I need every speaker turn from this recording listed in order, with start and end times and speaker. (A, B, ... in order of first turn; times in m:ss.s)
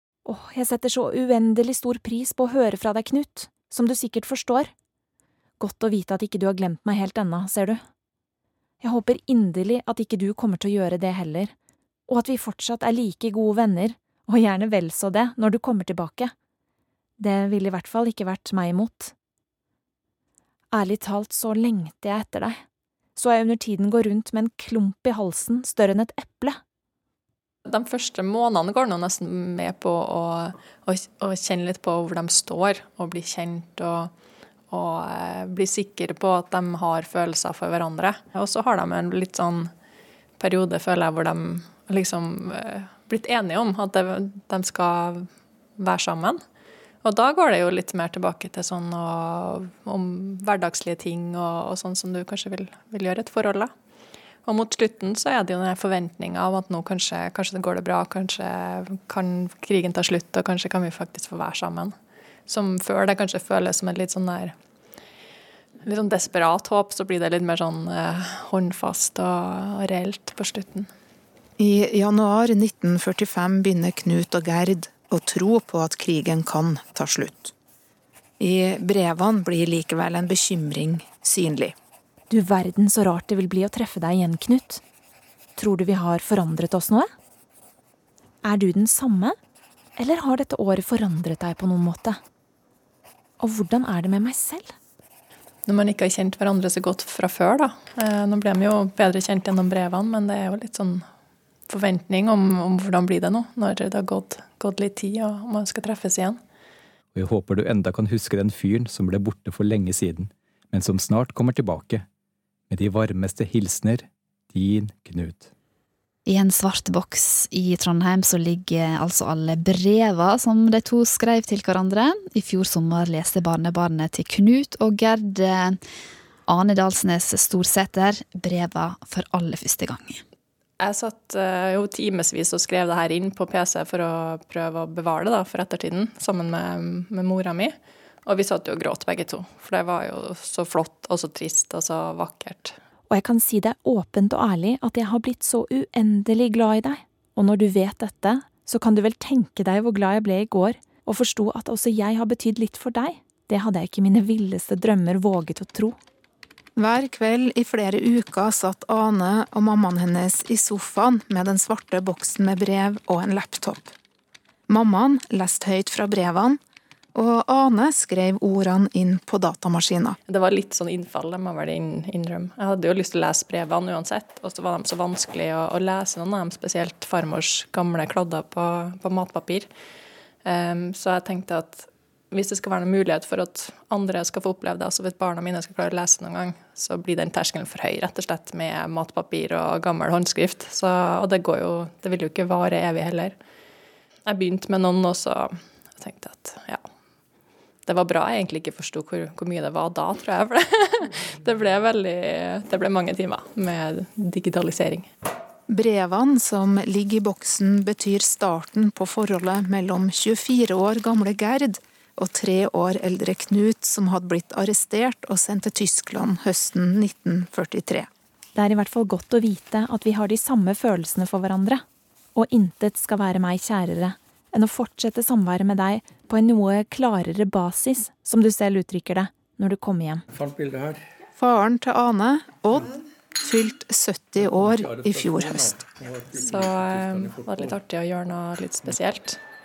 0:00.2-0:04.7 A
0:05.6-0:07.8 A
0:08.8-0:11.5 A
0:12.1-0:16.3 A
0:17.2-0:19.1 A
0:20.7-0:22.6 A
0:23.2-0:26.6 A
0:27.6-0:34.1 B
0:34.7-0:39.7 B
0:40.4-0:46.4 B
0:47.0-0:53.7 B
0:54.4-1:02.0 B
1:02.5-1:04.5 B
1:05.8-1:10.9 B
1:11.6-1:17.5 C
1:18.4-1:21.8 C
1:22.3-1:24.8 A
1:25.6-1:27.1 A
1:28.4-1:29.4 A
1:30.0-1:32.2 A
1:33.4-1:34.7 A
1:35.7-1:41.0 B
1:41.7-1:46.4 B
1:47.1-1:52.0 D
1:52.7-1:55.5 D
1:56.3-2:05.8 E
2:06.5-2:10.2 E
2:10.8-2:22.8 B
2:23.1-2:36.0 A
2:36.8-2:43.9 C
2:44.7-2:46.6 C
2:47.1-2:50.2 C
2:50.3-2:59.7 B
3:00.4-3:13.4 B
3:14.2-3:16.8 B
3:17.8-3:25.1 B
3:25.7-3:38.1 C
3:38.5-3:50.2 A
3:50.3-3:51.0 F
3:51.4-3:55.8 C
3:54.4-3:57.8 F
3:56.4-3:59.4 B